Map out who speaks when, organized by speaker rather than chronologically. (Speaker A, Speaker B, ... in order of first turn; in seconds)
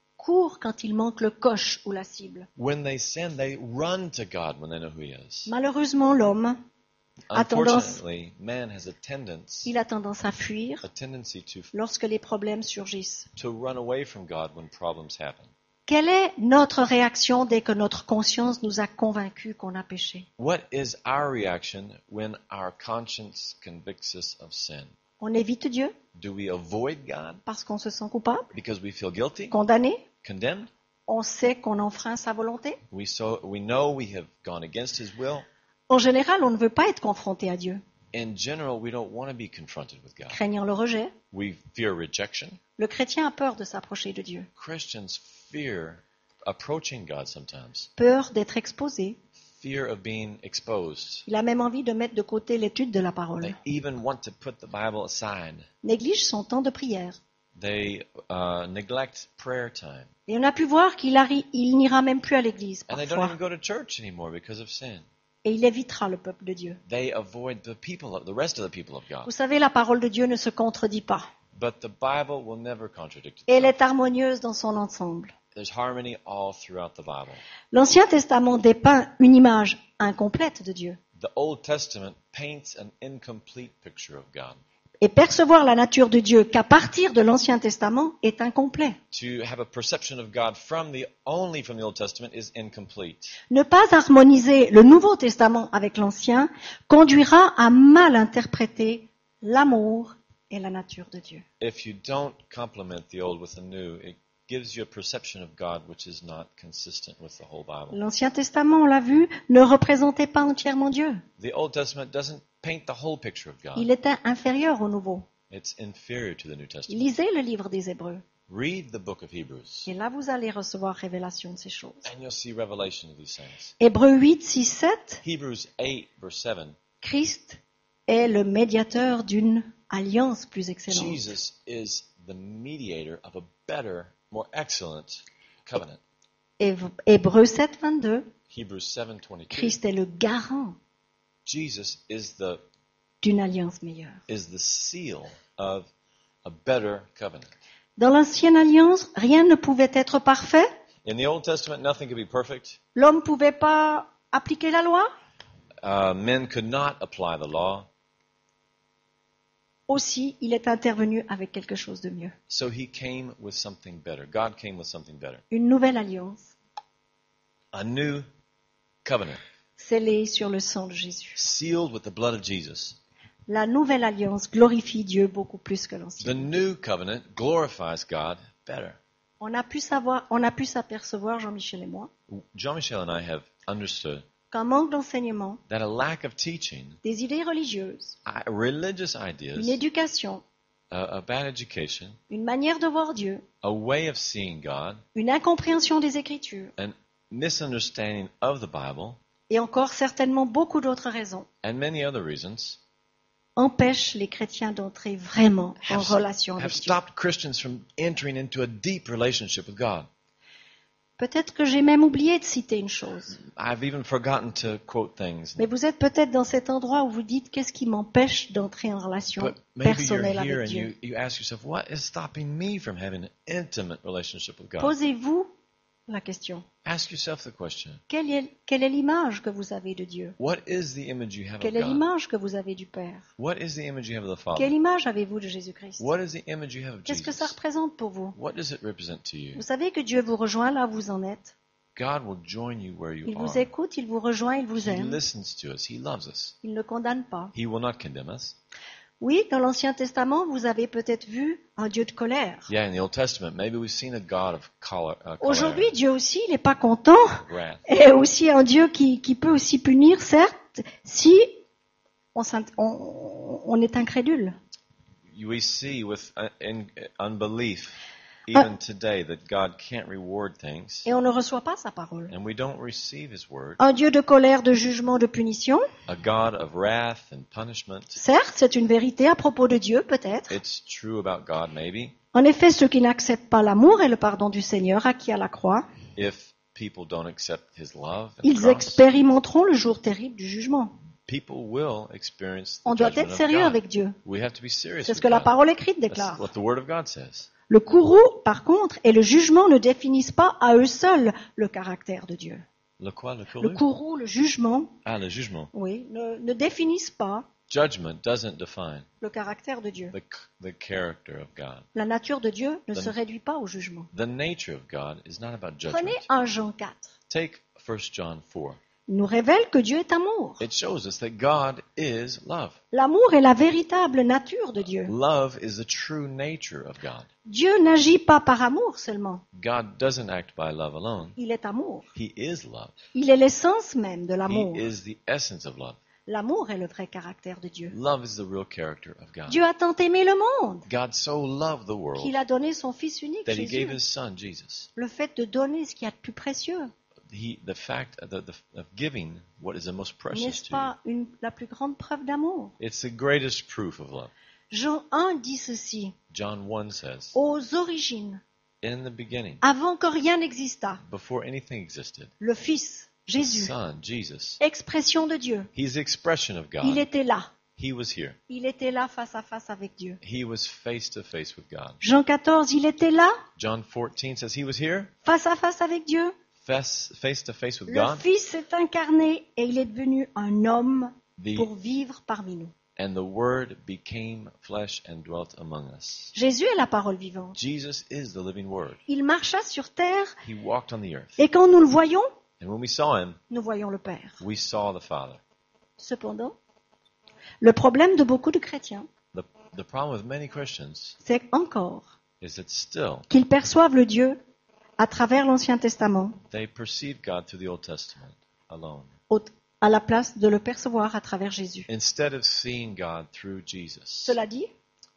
Speaker A: 0.2-2.5, 5.5-6.6, 7.3-8.0, 9.7-10.8, 11.7-13.3, 15.9-20.3, 25.2-25.9, 27.5-28.5, 29.5-30.1, 31.1-32.8, 35.9-37.8, 40.3-41.1, 42.8-44.5, 48.0-49.2, 51.3-53.6, 55.8-57.2, 60.3-63.4, 65.5-66.8, 69.2-71.2, 73.5-75.3, 77.7-81.0, 85.0-89.0, 93.5-101.4, 107.9-111.2, 113.8-115.3, 116.9-118.2, 119.9-122.1, 123.8-125.2, 127.0-131.3, 136.6-138.3, 139.5-140.8, 143.2-144.2, 148.0-150.7, 152.9-155.1, 159.9-162.3, 165.5-166.5, 169.8-171.4, 173.5-176.5, 179.4-182.1, 184.5-185.6, 187.0-188.2, 189.6-190.4, 192.3-193.4, 195.2-196.7, 199.5-201.5, 203.6-207.0, 211.2-213.4, 215.6-220.9, 224.8-225.5, 226.1-226.7, 228.1-230.4, 231.6-233.3, 234.6-236.1, 237.1-238.4, 239.6-241.5, 243.3-245.2, 246.6-247.5, 249.2-252.7, 255.4-261.6, 262.4-264.6, 271.1-272.3, 273.8-275.9, 278.2-280.6, 282.3-285.9, 288.4-291.0, 292.9-294.2, 295.1-296.5, 297.7-302.6, 303.6-305.0, 305.7-307.5, 309.2-310.1, 311.9-314.1, 315.9-317.1, 319.1-320.6, 322.9-325.1, 327.5-329.4, 331.4-332.1, 333.1-334.9, 336.3-337.9, 339.5-340.9, 342.2-344.0, 345.0-346.9, 350.3-352.7, 354.7-356.1, 357.4-358.4, 359.6-361.0, 362.4-363.7, 364.6-365.7, 366.8-367.5, 368.5-370.2, 372.0-373.4, 375.3-376.3, 377.9-382.7, 386.4-387.6, 389.1-390.4, 391.4-392.3, 393.5-394.4, 396.0-396.6, 397.6-399.1, 401.2-402.1, 403.3-404.4, 405.0-406.4, 409.3-411.9, 414.2-414.7
Speaker B: 2.6-5.5, 7.3-9.7, 10.8-11.7, 13.4-15.5, 20.4-24.9, 26.1-27.4, 28.5-29.6, 30.2-30.7, 32.9-35.5, 38.1-40.4, 41.3-42.6, 44.6-47.9, 49.4-51.3, 53.4-55.7, 57.6-60.1, 62.9-65.1, 66.9-69.3, 71.5-73.7, 75.5-77.4, 81.2-84.6, 89.1-93.4, 101.6-108.0, 111.4-113.9, 115.5-117.0, 118.5-119.9, 122.0-123.7, 125.2-126.8, 130.9-136.0, 138.5-139.8, 141.5-142.6, 144.3-145.9, 146.4-147.5, 151.0-152.8, 155.8-157.9, 162.5-165.4, 167.7-168.3, 169.0-169.4, 171.3-173.0, 176.2-179.0, 182.3-184.2, 185.7-187.0, 188.2-189.8, 190.9-192.2, 193.6-195.0, 196.8-199.2, 201.6-202.8, 205.8-210.1, 213.4-215.7, 219.4-224.9, 226.8-228.0, 230.4-232.0, 233.4-234.7, 236.0-237.6, 238.3-239.6, 242.0-243.7, 244.8-246.6, 247.5-248.6, 252.7-255.9, 257.4-257.8, 265.3-271.1, 272.3-273.8, 276.1-278.2, 280.5-282.2, 286.2-289.0, 291.3-295.5, 296.1-297.5, 303.0-303.8, 305.1-305.7, 307.7-309.1, 310.1-311.9, 314.1-316.3, 317.3-318.8, 320.6-322.8, 325.1-327.3, 329.5-331.4, 332.1-332.9, 334.5-336.0, 337.9-339.6, 340.9-342.4, 343.5-344.9, 347.3-350.9, 352.8-354.3, 356.3-357.4, 358.8-359.6, 361.0-362.3, 363.4-364.6, 365.8-367.1, 367.8-368.4, 370.2-372.0, 373.6-375.1, 376.6-378.2, 381.4-381.7, 383.0-386.3, 387.6-389.0, 390.4-391.4, 392.6-393.4, 394.4-395.4, 399.3-401.2, 402.4-403.3, 406.5-409.1, 411.9-414.4